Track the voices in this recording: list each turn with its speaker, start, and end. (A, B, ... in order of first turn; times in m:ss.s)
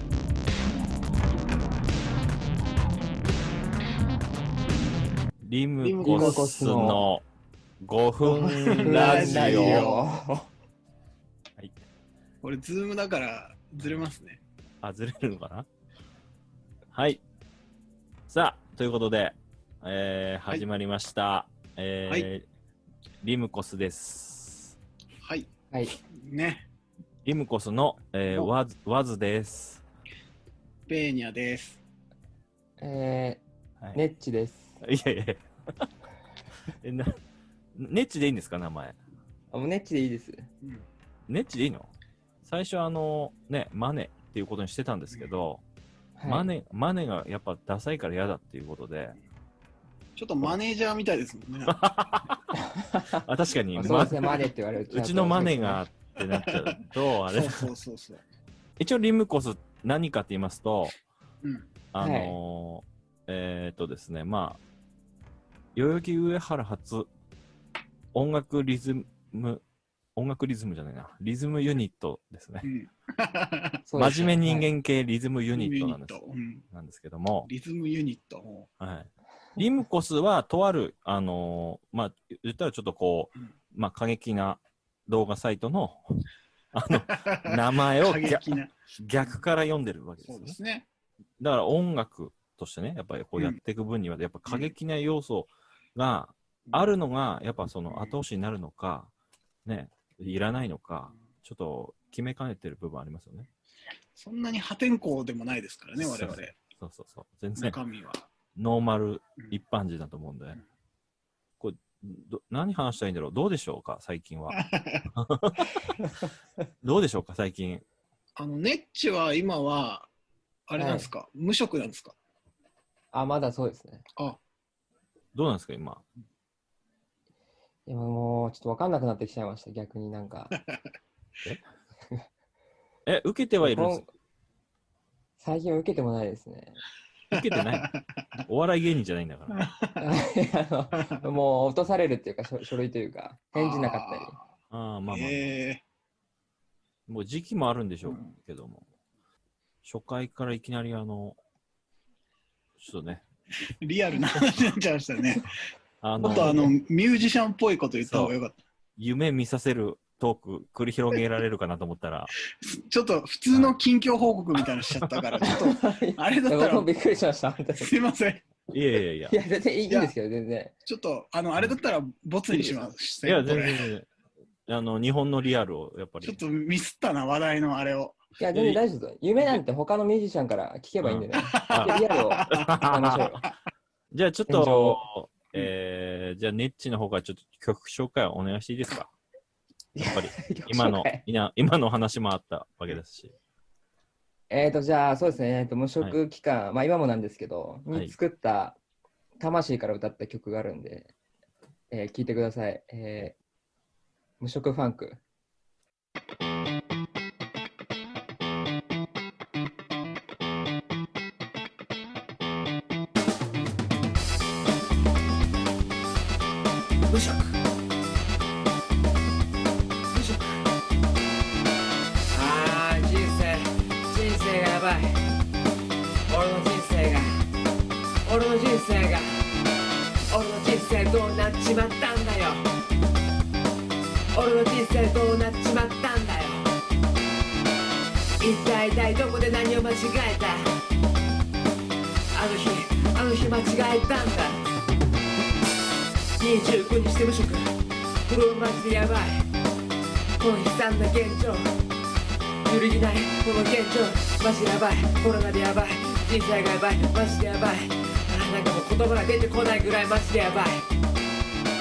0:05.4-0:07.2 A
0:05.8-0:06.7 B
0:06.0-0:07.1 C
0:07.8-0:09.8 A
0:08.3-0:10.5 C
0:08.5-0:10.0 B
0:12.4-0:14.4 B
0:14.8-0:15.7 A
0:16.9-0:17.2 A
0:18.3-0:22.5 A
0:23.2-0:24.8 A
0:25.2-0:26.6 B
0:27.2-0:29.8 A
0:30.9-0:31.8 B
0:32.8-0:33.4 C
0:33.9-0:34.8 C
0:34.8-0:35.9 A
0:36.8-0:37.2 A
0:37.8-0:39.0 A
0:39.5-0:40.5 C
0:41.3-0:41.9 A
0:42.4-0:45.6 A
0:46.2-0:46.5 C
0:46.3-0:49.2 A
0:50.2-0:51.8 B
0:51.7-0:52.4 A
0:52.8-0:53.2 C
0:53.2-0:54.2 A
0:53.8-0:55.8 C
0:54.9-0:57.7 A
0:56.4-0:56.8 B
0:57.3-0:58.2 B
0:58.8-1:00.9 A
1:01.4-1:01.8 B
1:01.9-1:04.6 A
1:02.0-1:02.4 C
1:05.8-1:07.1 A
1:08.1-1:09.6 A
1:10.2-1:12.7 A
1:12.6-1:13.8 B
1:13.9-1:14.7 C
1:14.0-1:16.2 A
1:15.5-1:16.6 B
1:16.7-1:17.5 A
1:17.4-1:18.7 B
1:18.8-1:28.5 A
1:27.0-1:29.4 B
1:29.0-1:30.6 A
1:30.2-1:30.9 B
1:31.4-1:39.1 A
1:34.5-1:34.7 B
1:36.7-1:37.0 B
1:37.9-1:38.2 B
1:39.7-1:43.5 A
1:44.2-1:46.6 B
1:46.0-1:47.8 A
1:47.6-1:48.3 B
1:48.6-1:50.6 A
1:51.6-1:54.6 A
1:54.5-1:55.0 B
1:55.1-1:55.8 A
1:56.8-1:57.8 A
1:58.4-2:00.1 B
2:00.7-2:02.2 B
2:00.8-2:01.1 C
2:03.1-2:04.0 C
2:05.3-2:06.1 A
2:07.9-2:10.5 C
2:13.1-2:14.0 A
2:13.6-2:14.0 C
2:15.4-2:16.8 C
2:17.3-2:18.2 B
2:17.3-2:17.9 A
2:18.5-2:19.6 A
2:19.5-2:20.1 B
2:20.0-2:24.4 C
2:20.9-2:21.2 B
2:23.5-2:24.4 B
2:24.7-2:25.6 A
2:25.1-2:25.8 B
2:27.1-2:28.9 A
2:29.8-2:31.4 A
2:32.8-2:33.2 A
2:33.8-2:35.4 B
2:36.0-2:36.7 A
2:36.2-2:36.7 C
2:36.2-2:38.6 B
2:38.0-2:38.4 A
2:39.0-2:42.3 A
2:42.6-2:46.9 B
2:44.6-2:45.3 A
2:45.4-2:48.0 C
2:47.8-2:48.4 B
2:48.7-2:49.4 A
2:49.3-2:50.8 C
2:49.9-2:50.2 B
2:50.9-2:53.9 B
2:52.5-2:54.1 A
2:54.7-2:56.4 A
2:56.2-2:58.8 B
2:58.4-3:03.4 C
3:01.0-3:02.0 A
3:01.4-3:02.9 B
3:02.5-3:03.2 A
3:04.1-3:09.1 A
3:04.5-3:05.0 C
3:10.0-3:11.2 C
3:10.0-3:13.3 A
3:14.5-3:18.8 C
3:19.4-3:21.1 C
3:21.9-3:23.4 C
3:24.4-3:25.2 C
3:37.1-3:37.6 D
3:40.1-3:40.6 D
3:42.3-3:45.1 D
3:46.3-3:47.3 D
3:48.2-3:49.3 D
3:50.3-3:52.6 D
3:54.3-3:56.6 D
3:58.4-4:00.7 D
4:02.3-4:04.6 D
4:06.4-4:07.7 D
4:08.3-4:09.4 D
4:10.4-4:11.6 D
4:12.7-4:20.8 D